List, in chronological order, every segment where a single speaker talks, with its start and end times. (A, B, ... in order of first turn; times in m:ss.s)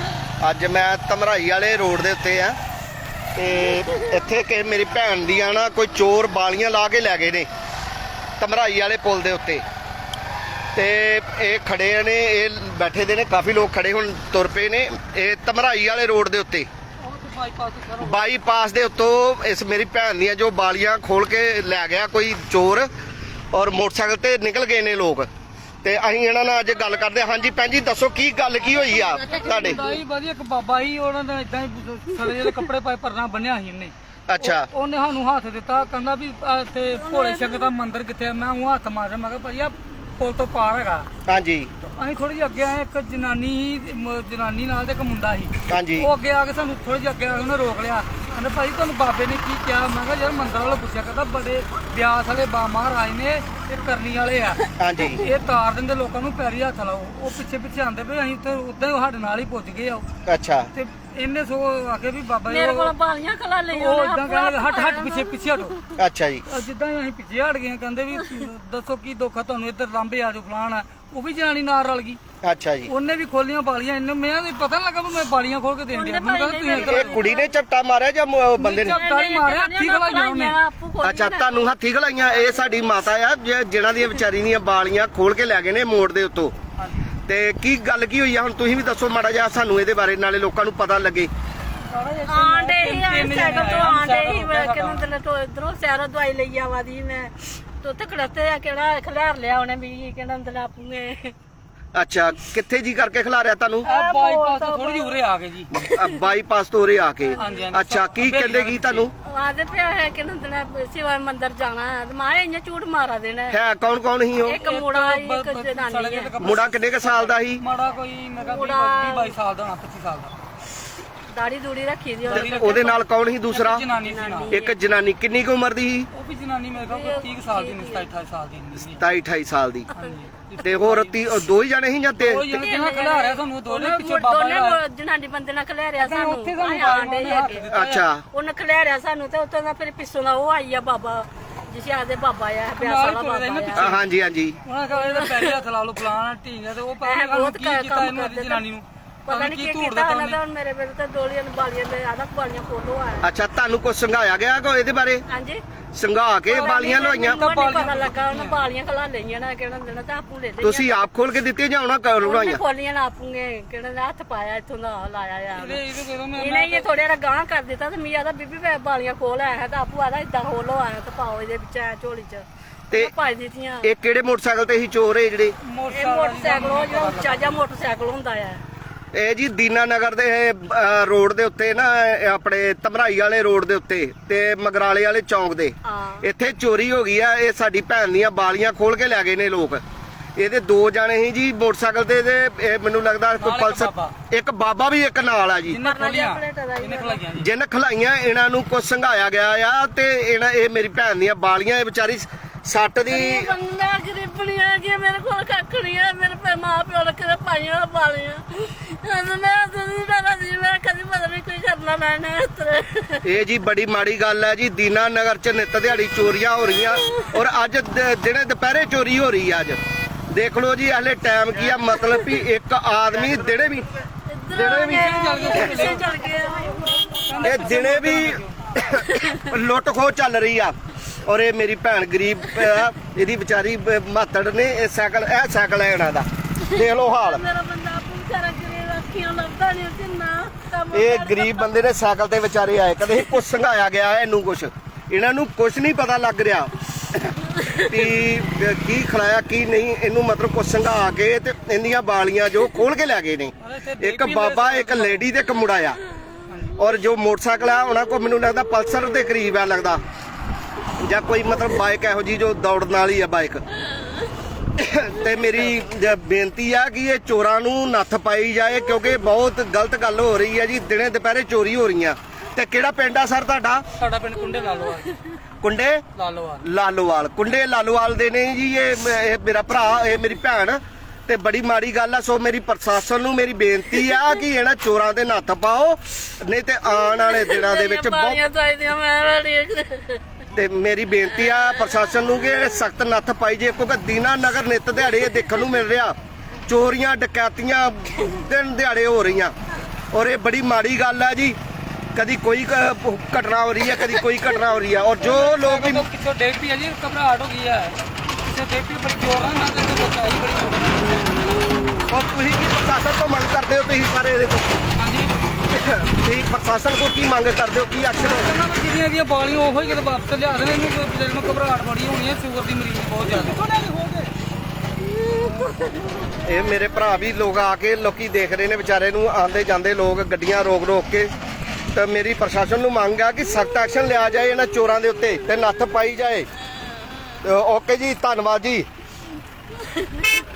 0:00.4-0:02.6 A
0:03.4-0:07.5 A
0:08.4-0:09.6 A
0:10.8-0:16.7 A
0:17.0-0:18.2 B
0:18.0-0:22.9 A
0:23.5-0:25.3 A
0:25.8-0:29.8 A
0:29.3-0:41.1 B
0:34.3-0:34.7 A
0:36.9-0:37.7 C
0:41.3-0:41.7 A
0:42.0-1:00.0 B
0:45.7-0:46.1 A
0:54.8-0:55.2 A
1:00.3-1:00.7 A
1:00.7-1:02.9 B
1:02.5-1:05.8 C
1:03.7-1:05.8 B
1:06.0-1:06.4 A
1:06.5-1:12.2 B
1:12.4-1:12.9 A
1:12.9-1:17.2 B
1:15.9-1:17.5 C
1:16.8-1:19.0 A
1:18.6-1:20.6 B
1:18.8-1:21.7 C
1:21.0-1:26.5 A
1:22.3-1:22.8 C
1:26.8-1:27.1 B
1:27.3-1:31.3 A
1:31.8-1:35.1 B
1:32.3-1:41.3 C
1:41.9-1:43.9 A
1:43.8-1:45.2 C
1:43.8-1:45.7 B
1:45.7-1:49.1 A
1:45.8-1:46.2 C
1:47.3-1:47.6 C
1:47.4-1:49.1 B
1:49.2-1:53.6 C
1:53.5-1:54.6 A
1:54.4-2:00.3 B
1:54.5-1:56.3 C
1:56.4-1:57.6 A
1:58.4-1:59.4 C
2:01.3-2:02.8 C
2:02.2-2:04.5 B
2:02.3-2:03.9 A
2:04.0-2:04.8 C
2:04.5-2:06.1 A
2:06.1-2:09.0 B
2:06.8-2:08.1 C
2:09.0-2:09.9 A
2:09.9-2:11.3 B
2:10.6-2:12.4 A
2:12.2-2:14.8 B
2:12.5-2:17.7 C
2:16.0-2:18.1 B
2:17.7-2:18.2 A
2:18.3-2:24.0 C
2:22.8-2:24.0 B
2:23.8-2:24.6 A
2:24.6-2:30.4 B
2:24.9-2:25.6 C
2:27.0-2:28.6 C
2:29.3-2:33.3 C
2:33.2-2:35.2 A
2:35.3-2:35.6 C
2:35.9-2:37.4 A
2:36.5-2:41.1 C
2:36.5-2:38.6 B
2:40.6-2:42.6 A
2:42.2-2:45.8 C
2:45.6-2:46.9 B
2:46.4-2:53.9 C
2:53.8-2:55.6 A
2:55.6-2:57.6 B
2:55.9-2:58.6 C
2:59.1-3:09.8 A
3:05.8-3:06.3 C
3:10.4-3:15.8 A
3:13.4-3:14.2 B
3:15.7-3:17.5 B
3:15.8-3:17.2 C
3:17.4-3:23.5 A
3:23.1-3:33.3 C
3:33.2-3:39.8 A
3:40.3-3:43.9 A
3:44.3-3:47.7 C
3:44.5-3:45.1 A
3:44.8-3:46.1 B
3:47.2-3:48.6 B
3:47.4-3:57.4 A
3:48.9-3:49.4 C
3:56.6-4:01.7 C
4:00.9-4:16.0 A
4:07.6-4:07.9 C
4:13.6-4:15.3 B
4:16.5-4:16.8 B
4:16.8-4:20.0 A
4:21.0-4:23.6 A
4:24.8-4:33.8 A
4:25.4-4:25.8 B
4:34.0-4:35.1 B
4:34.6-4:35.1 C
4:35.6-4:36.0 A
4:36.2-4:36.7 B
4:36.6-4:48.4 A
4:46.9-4:50.2 C
4:50.5-4:56.2 A
4:56.7-4:59.6 A
5:00.1-5:01.6 A
5:02.2-5:06.1 A
5:05.2-5:11.6 B
5:12.1-5:14.7 A
5:15.0-5:15.3 B
5:15.7-5:18.6 A
5:18.2-5:24.3 B
5:25.1-5:26.3 C
5:26.4-5:31.3 A
5:31.9-5:36.5 A
5:37.4-5:38.9 A